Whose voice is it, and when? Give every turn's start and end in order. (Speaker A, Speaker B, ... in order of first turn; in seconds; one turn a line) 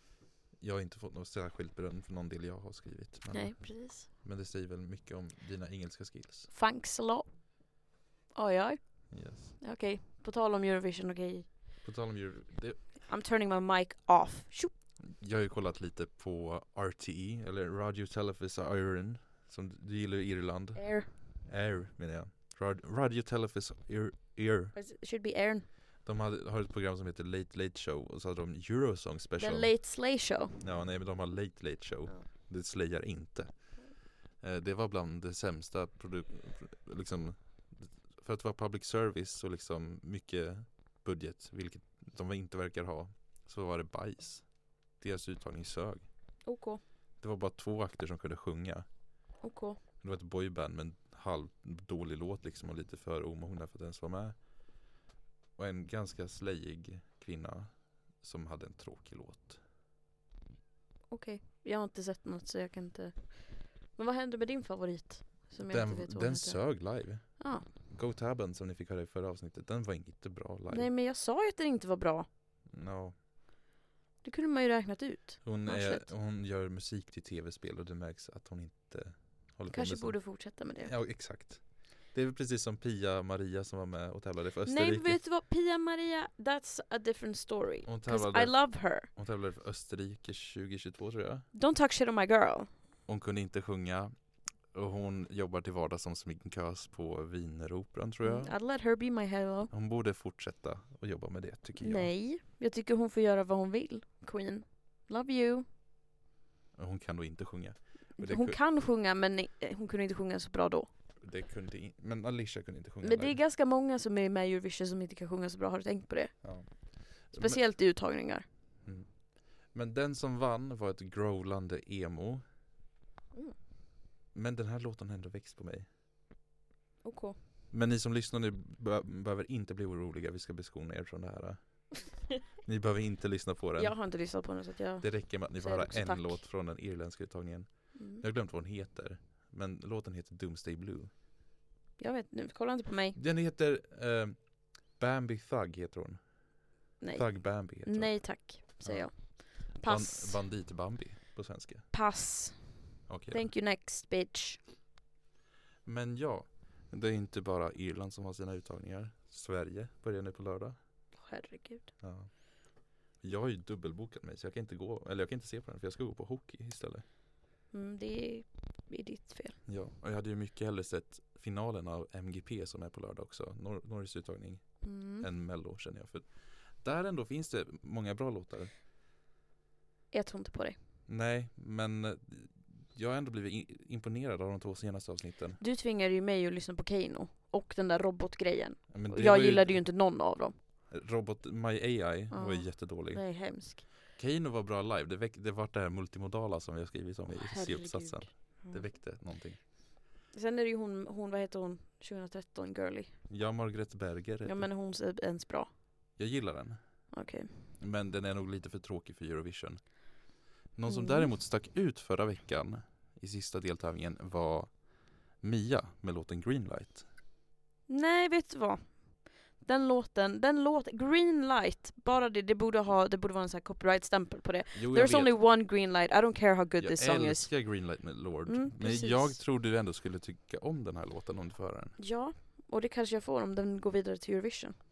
Speaker A: 0.6-6.5
Speaker B: 3.3-4.1
Speaker B: 6.5-7.4
Speaker B: 8.3-11.5
Speaker A: 9.1-9.6
Speaker A: 11.8-12.9
Speaker B: 13.1-14.7
Speaker A: 15.0-24.7
Speaker B: 20.7-21.1
Speaker B: 24.7-25.6
Speaker A: 26.0-29.8
Speaker B: 29.4-30.6
Speaker A: 30.6-46.0
Speaker B: 46.4-46.8
Speaker A: 47.2-48.9
Speaker B: 49.4-49.8
Speaker A: 50.0-54.4
Speaker A: 55.5-59.6
Speaker B: 61.1-67.7
Speaker A: 65.6-70.9
Speaker B: 70.7-72.3
Speaker A: 72.7-73.1
Speaker B: 74.2-76.1
Speaker A: 75.4-85.2
Speaker B: 79.7-80.9
Speaker B: 84.6-89.1
Speaker A: 87.8-91.5
Speaker B: 91.5-92.7
Speaker A: 93.1-94.1
Speaker A: 94.7-98.5
Speaker B: 98.2-99.7
Speaker A: 99.7-102.1
Speaker B: 101.8-105.6
Speaker A: 106.7-108.6
Speaker B: 108.2-110.9
Speaker A: 111.2-113.4
Speaker B: 113.0-118.4
Speaker A: 116.4-117.6
Speaker A: 118.8-122.4
Speaker A: 124.3-125.9
Speaker B: 127.0-127.4
Speaker A: 127.7-132.0
Speaker A: 132.6-134.0
Speaker B: 133.8-136.4
Speaker A: 135.0-141.1
Speaker B: 137.9-138.2
Speaker B: 142.0-143.2
Speaker A: 143.1-146.2
Speaker B: 147.0-150.4
Speaker A: 147.1-151.8
Speaker B: 151.9-154.6
Speaker A: 153.1-153.5
Speaker A: 155.8-160.8
Speaker B: 161.1-161.9
Speaker A: 162.0-162.5
Speaker A: 163.1-167.0
Speaker B: 167.7-169.6
Speaker A: 169.7-178.7
Speaker B: 174.8-175.3
Speaker B: 180.1-180.8
Speaker A: 181.1-185.6
Speaker B: 185.6-190.6
Speaker A: 188.9-189.9
Speaker A: 190.9-199.6
Speaker B: 192.3-193.8
Speaker B: 197.3-198.9
Speaker B: 200.3-203.2
Speaker A: 203.3-204.7
Speaker B: 204.4-205.7
Speaker A: 206.2-207.1
Speaker B: 207.1-207.7
Speaker A: 207.8-210.0
Speaker A: 210.7-217.0
Speaker B: 210.8-211.3
Speaker B: 217.9-227.8
Speaker A: 224.7-225.3
Speaker A: 226.8-232.0
Speaker B: 228.4-229.4
Speaker B: 232.0-234.8